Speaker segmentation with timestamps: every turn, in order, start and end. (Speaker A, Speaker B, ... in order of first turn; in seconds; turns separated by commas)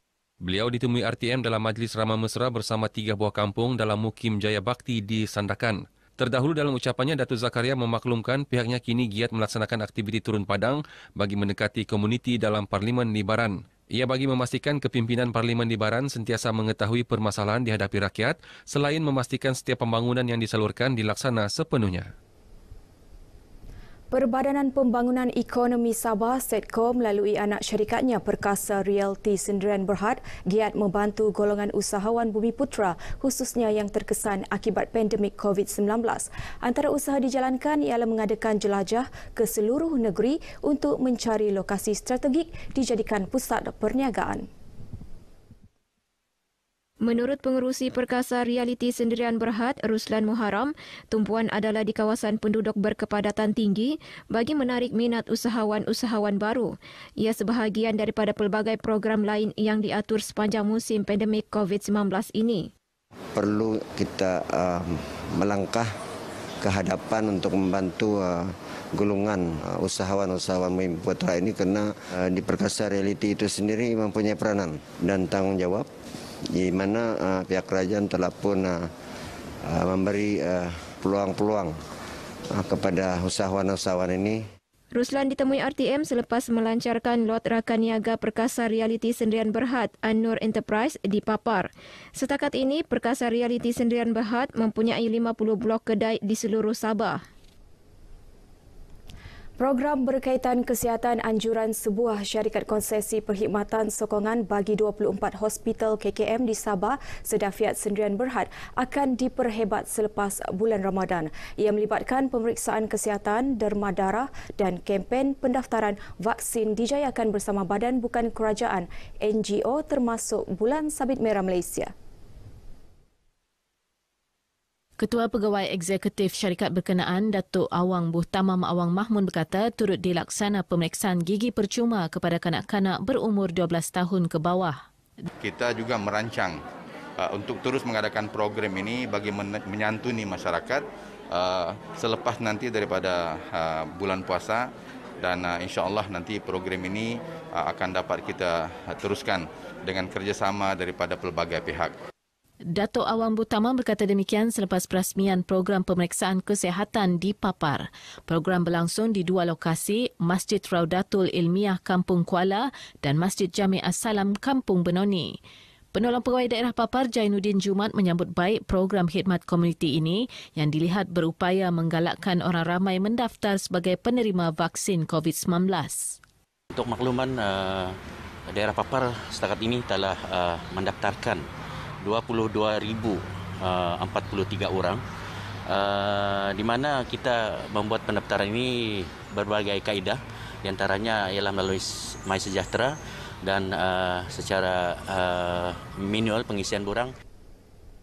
Speaker A: 0.4-22.1, Speaker B: 24.1-44.5, Speaker C: 47.0-62.7, Speaker D: 63.4-65.9, Speaker D: 66.6-75.9, Speaker D: 76.5-78.9, Speaker D: 79.7-81.8, Speaker D: 82.5-84.4, Speaker C: 84.9-97.2, Speaker B: 99.6-121.9, Speaker E: 125.0-134.8, Speaker F: 135.4-136.6, Speaker F: 137.2-144.7, Speaker F: 145.2-151.9, Speaker E: 152.7-165.4, Speaker E: 165.9-176.2, Speaker G: 176.7-178.0, Speaker G: 178.5-181.4, Speaker G: 182.0-185.0, Speaker G: 185.7-197.1